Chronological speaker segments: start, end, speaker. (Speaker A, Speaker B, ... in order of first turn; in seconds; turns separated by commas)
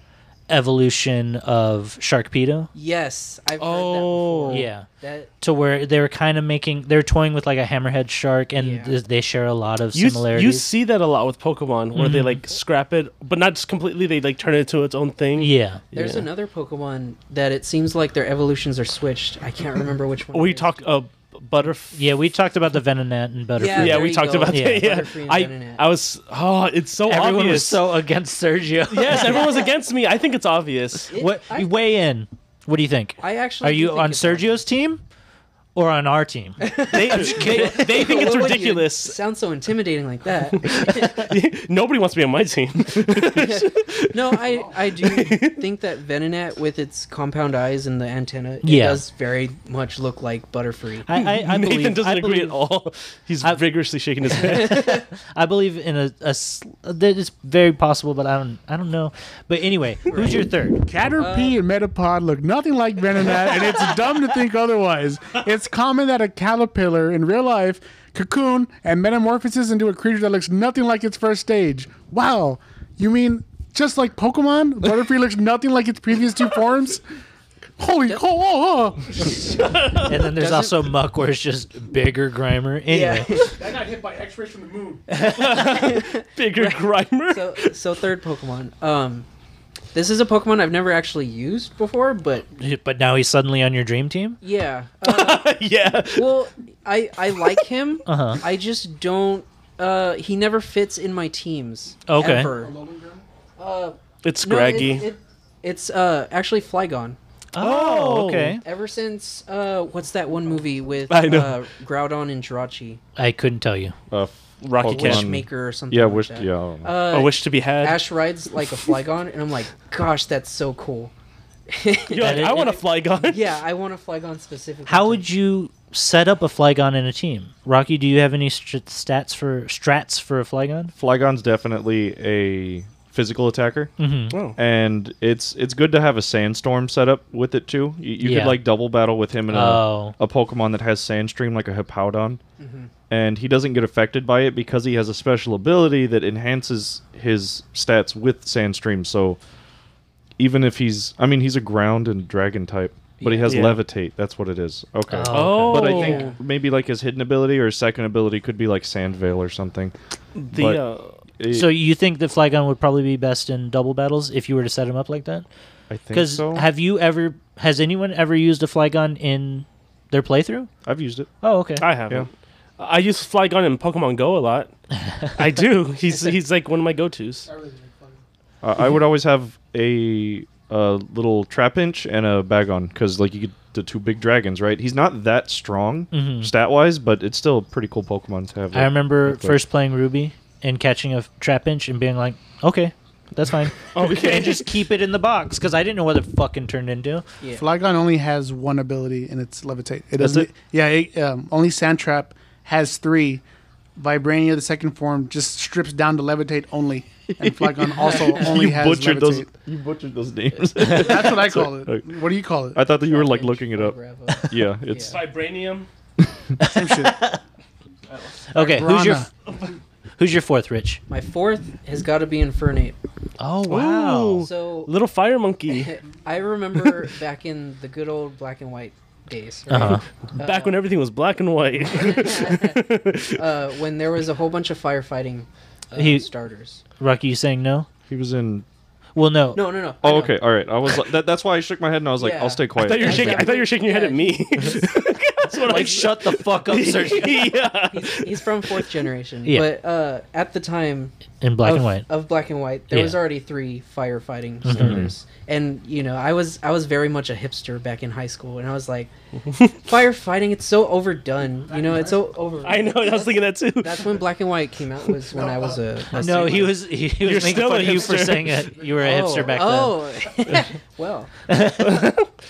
Speaker A: 0.5-2.7, Speaker B: 2.7-5.3, Speaker C: 3.6-4.7, Speaker A: 4.5-4.8, Speaker A: 5.4-10.7, Speaker B: 8.5-9.0, Speaker C: 9.9-16.3, Speaker A: 11.9-12.4, Speaker A: 15.4-15.8, Speaker B: 15.9-20.7, Speaker C: 20.3-22.1, Speaker A: 21.9-24.9, Speaker B: 23.6-25.8, Speaker C: 23.6-27.8, Speaker A: 27.1-29.5, Speaker C: 28.9-31.1, Speaker B: 29.1-29.4, Speaker B: 31.1-31.7, Speaker A: 31.1-35.0, Speaker B: 33.2-34.6, Speaker A: 35.7-38.2, Speaker B: 36.6-41.3, Speaker C: 36.9-39.2, Speaker C: 40.6-45.6, Speaker B: 43.3-51.1, Speaker A: 48.6-49.0, Speaker A: 51.1-52.6, Speaker C: 51.1-55.0, Speaker A: 54.3-60.8, Speaker B: 60.1-60.5, Speaker D: 60.8-77.0, Speaker B: 61.2-61.6, Speaker D: 77.8-79.4, Speaker C: 79.4-80.1, Speaker A: 79.9-83.5, Speaker B: 80.3-80.8, Speaker B: 82.9-83.5, Speaker D: 83.5-85.1, Speaker A: 85.1-85.6, Speaker C: 85.2-87.7, Speaker B: 85.3-89.3, Speaker B: 89.9-92.5, Speaker A: 92.5-94.4, Speaker B: 94.4-95.5, Speaker C: 95.0-96.4, Speaker B: 96.1-102.8, Speaker A: 98.0-98.4, Speaker A: 102.1-102.5, Speaker D: 102.6-103.2, Speaker B: 103.6-107.2, Speaker C: 104.2-105.1, Speaker A: 107.5-108.6, Speaker C: 107.6-108.6, Speaker B: 108.6-113.0, Speaker C: 111.1-111.6, Speaker A: 113.2-113.9, Speaker E: 114.1-117.0, Speaker C: 114.6-115.3, Speaker B: 114.9-121.1, Speaker C: 117.1-118.0, Speaker B: 121.7-125.2, Speaker C: 122.1-123.5, Speaker A: 122.2-122.8, Speaker A: 124.9-130.9, Speaker E: 130.9-133.9, Speaker A: 134.0-134.4, Speaker C: 134.3-134.6, Speaker E: 134.6-142.4, Speaker A: 138.2-138.6, Speaker A: 139.5-140.2, Speaker B: 142.6-142.9, Speaker E: 143.1-149.4, Speaker E: 150.4-159.9, Speaker B: 153.2-153.7, Speaker C: 153.5-153.8, Speaker A: 155.1-156.0, Speaker C: 155.3-156.3, Speaker B: 155.9-156.4, Speaker C: 160.3-161.2, Speaker E: 160.5-160.8, Speaker E: 161.4-161.7, Speaker A: 161.5-165.4, Speaker E: 165.9-166.7, Speaker A: 166.1-170.7, Speaker E: 170.8-171.3, Speaker A: 171.4-171.9, Speaker C: 171.8-174.7, Speaker C: 175.3-177.5, Speaker D: 177.5-178.2, Speaker E: 178.6-189.6, Speaker A: 186.1-186.5, Speaker A: 188.7-197.2, Speaker C: 193.9-194.7, Speaker D: 197.6-203.4, Speaker D: 203.9-209.5, Speaker E: 207.4-212.0, Speaker B: 208.0-208.4, Speaker D: 210.8-212.8, Speaker E: 212.7-213.9, Speaker B: 213.0-215.2, Speaker E: 214.5-215.2, Speaker C: 215.1-215.9, Speaker A: 216.6-217.4, Speaker D: 216.6-217.2, Speaker A: 218.5-219.3, Speaker D: 218.6-219.3, Speaker A: 220.2-221.0, Speaker B: 221.1-222.9, Speaker A: 223.4-224.5, Speaker C: 223.7-226.0, Speaker B: 224.4-224.9, Speaker B: 225.7-230.8, Speaker A: 229.7-230.0, Speaker C: 230.3-233.4, Speaker B: 231.9-236.8, Speaker A: 235.9-236.2, Speaker A: 237.0-237.9, Speaker E: 238.1-238.7, Speaker A: 239.2-239.6, Speaker B: 239.5-240.3, Speaker E: 240.0-243.5, Speaker B: 242.2-244.8, Speaker C: 242.8-248.9, Speaker A: 245.6-247.5, Speaker B: 247.9-259.1, Speaker A: 251.4-252.1, Speaker A: 252.9-253.2, Speaker A: 254.6-255.1, Speaker E: 254.8-255.1, Speaker C: 259.5-259.8, Speaker B: 259.8-266.8, Speaker C: 262.6-264.2, Speaker A: 266.1-270.0, Speaker C: 267.2-268.6, Speaker B: 269.0-271.3, Speaker A: 271.5-272.1, Speaker C: 271.7-272.3